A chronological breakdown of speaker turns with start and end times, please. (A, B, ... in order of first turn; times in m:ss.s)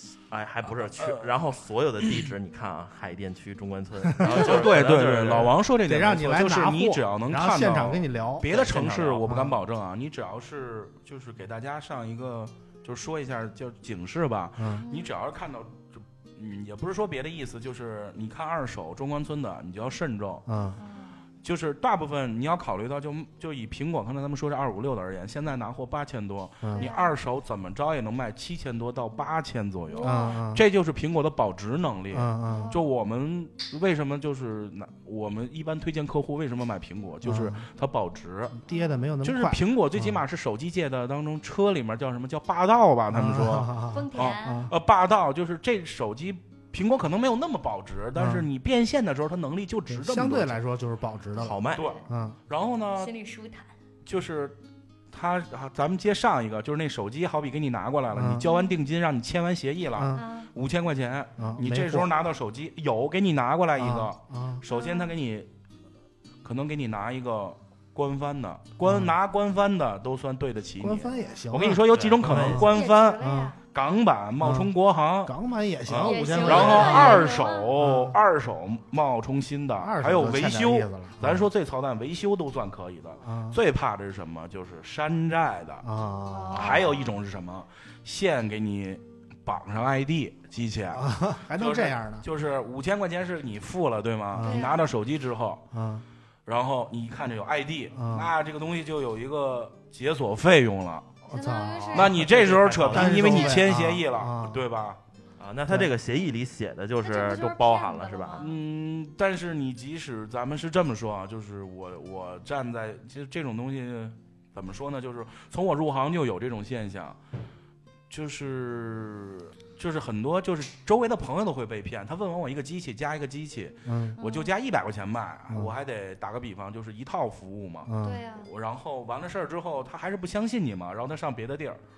0:00.1-0:05.6 A
0:00.6-0:01.3 B
0:02.0-0:02.3 B
0:04.0-0:04.6 C
0:04.2-0:20.5 B
0:05.9-0:08.5 C
0:08.5-0:09.3 A
0:09.2-0:09.6 C
0:14.6-0:14.8 C
0:14.8-0:15.1 D
0:20.5-0:20.8 C
0:20.8-0:21.2 D
0:21.4-0:38.6 B
0:26.6-0:26.9 C
0:26.8-0:27.2 D
0:29.9-0:30.4 D
0:30.0-0:30.6 C
0:32.1-0:32.7 C
0:32.4-0:32.8 D
0:37.2-0:37.6 C
0:38.6-0:40.2 C
0:38.7-0:39.1 D
0:39.2-0:50.6 B
0:43.1-0:44.7 C
0:43.9-0:44.7 D
0:48.2-0:48.5 C
0:49.9-0:52.4 C
0:51.4-0:51.9 A
0:51.7-0:52.0 D
0:51.8-0:53.1 B
0:53.0-0:53.7 D
0:54.0-0:54.6 B
0:55.1-1:05.5 B
0:58.1-0:58.5 C
0:58.4-0:58.7 D
1:00.0-1:00.3 C
1:00.1-1:00.5 D
1:01.4-1:02.1 C
1:03.8-1:04.6 C
1:04.7-1:05.2 D
1:06.4-1:15.4 B
1:08.8-1:09.1 C
1:10.8-1:13.6 C
1:11.0-1:11.4 D
1:11.9-1:12.7 A
1:12.5-1:13.6 D
1:14.4-1:14.7 C
1:15.3-1:18.2 C
1:16.0-1:25.8 B
1:16.0-1:17.7 D
1:19.8-1:21.5 C
1:23.2-1:23.6 C
1:25.8-1:27.0 C
1:26.3-1:27.2 D
1:26.5-1:35.6 B
1:30.9-1:32.3 C
1:34.3-1:34.7 C
1:34.4-1:34.9 D
1:35.7-1:36.0 C
1:36.5-1:41.1 B
1:37.9-1:38.3 C
1:41.3-1:42.1 D
1:41.3-1:42.3 C
1:41.9-1:45.0 B
1:42.2-1:43.6 A
1:42.9-1:44.6 C
1:45.4-1:48.5 A
1:47.0-1:48.6 D
1:48.4-1:57.2 B
1:58.1-2:11.8 B
2:03.9-2:04.2 C
2:04.2-2:04.5 D
2:05.5-2:05.7 C
2:07.9-2:08.2 C
2:08.0-2:08.5 D